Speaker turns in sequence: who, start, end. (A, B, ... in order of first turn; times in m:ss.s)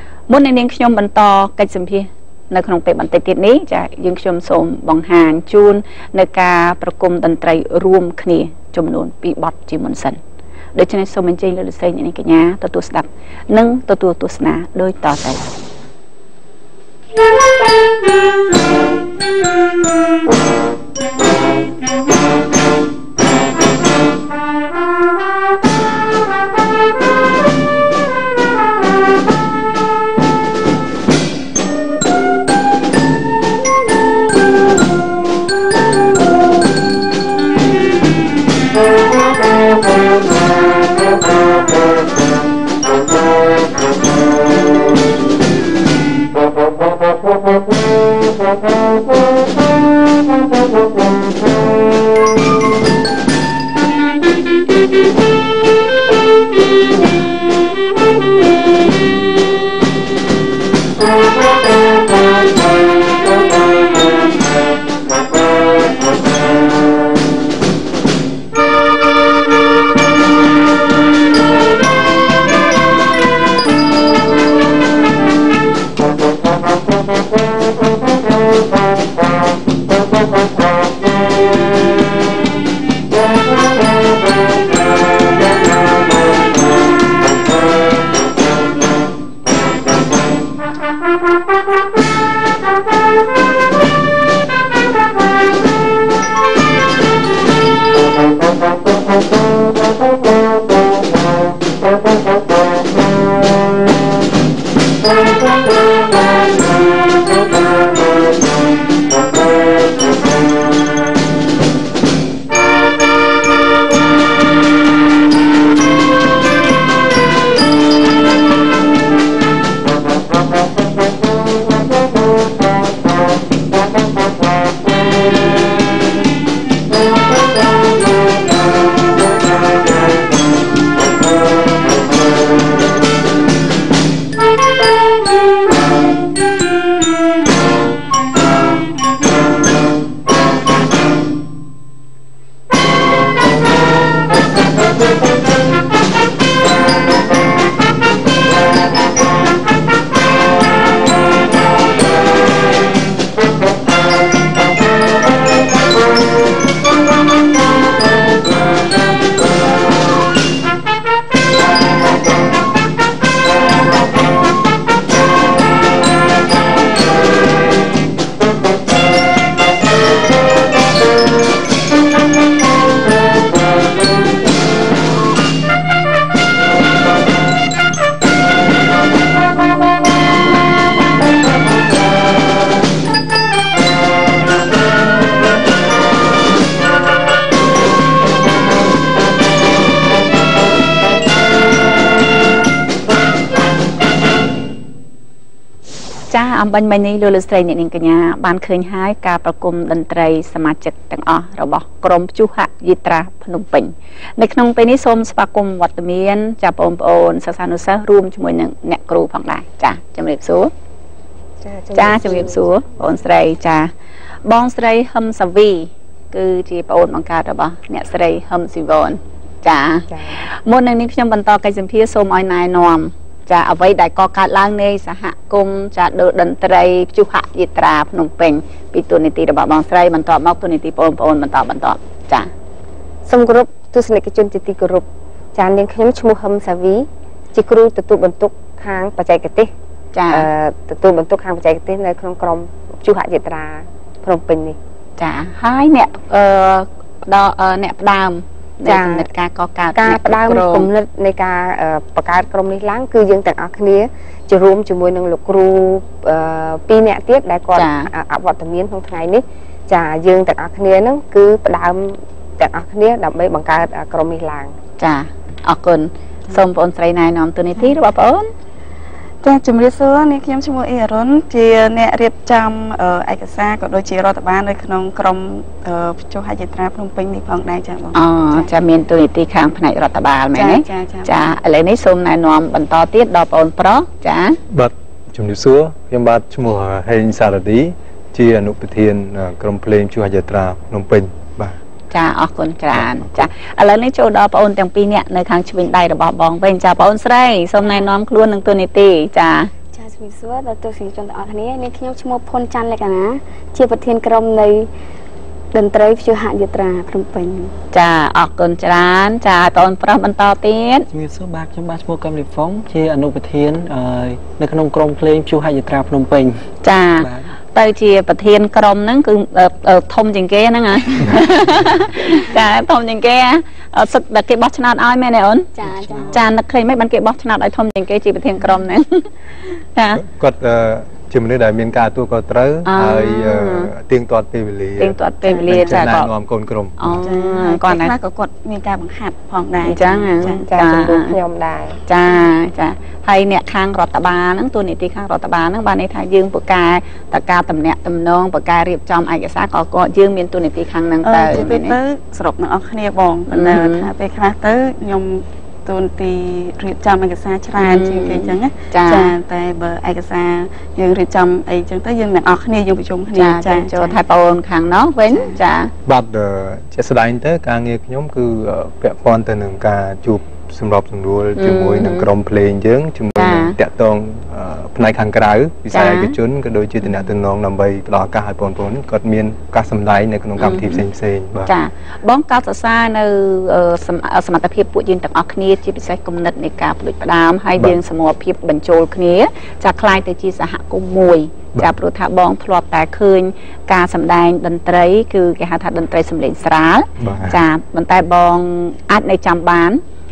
0:00.3-0:10.2 A
0:10.8-0:15.5 A
3:16.3-3:30.7 A
3:31.6-3:32.6 B
3:31.9-3:33.9 A
3:34.4-3:52.5 A
3:40.1-3:40.5 B
3:53.3-3:59.7 B
4:00.1-4:00.5 A
4:00.3-4:04.8 B
4:05.2-4:10.9 A
4:08.8-4:09.3 B
4:10.0-4:24.7 B
4:17.8-4:18.1 A
4:25.0-4:28.5 A
4:29.4-4:38.8 C
4:38.2-4:44.6 A
4:40.5-4:41.4 C
4:44.7-4:51.8 D
4:52.1-4:59.7 A
4:52.9-4:53.5 D
4:59.9-5:04.9 E
5:05.7-5:07.7 E
5:07.9-5:11.1 A
5:11.1-5:16.6 F
5:16.8-5:25.7 A
5:17.2-5:17.6 F
5:25.8-5:26.4 E
5:25.8-5:26.5 F
5:26.3-5:29.3 A
5:30.0-5:30.2 A
5:30.2-5:37.4 D
5:32.9-5:33.9 A
5:35.0-5:36.3 A
5:35.5-5:35.8 C
5:37.0-5:38.2 A
5:37.2-5:40.6 C
5:39.8-5:41.4 A
5:40.6-5:42.0 B
5:42.1-5:52.0 A
5:51.2-6:04.2 C
5:53.5-5:54.1 A
5:57.8-5:59.4 A
6:03.3-6:05.9 A
6:06.0-6:21.7 D
6:11.6-6:12.3 A
6:13.4-6:13.8 A
6:15.9-6:16.4 A
6:20.6-6:21.0 A
6:21.7-6:40.0 A
6:37.2-6:37.6 D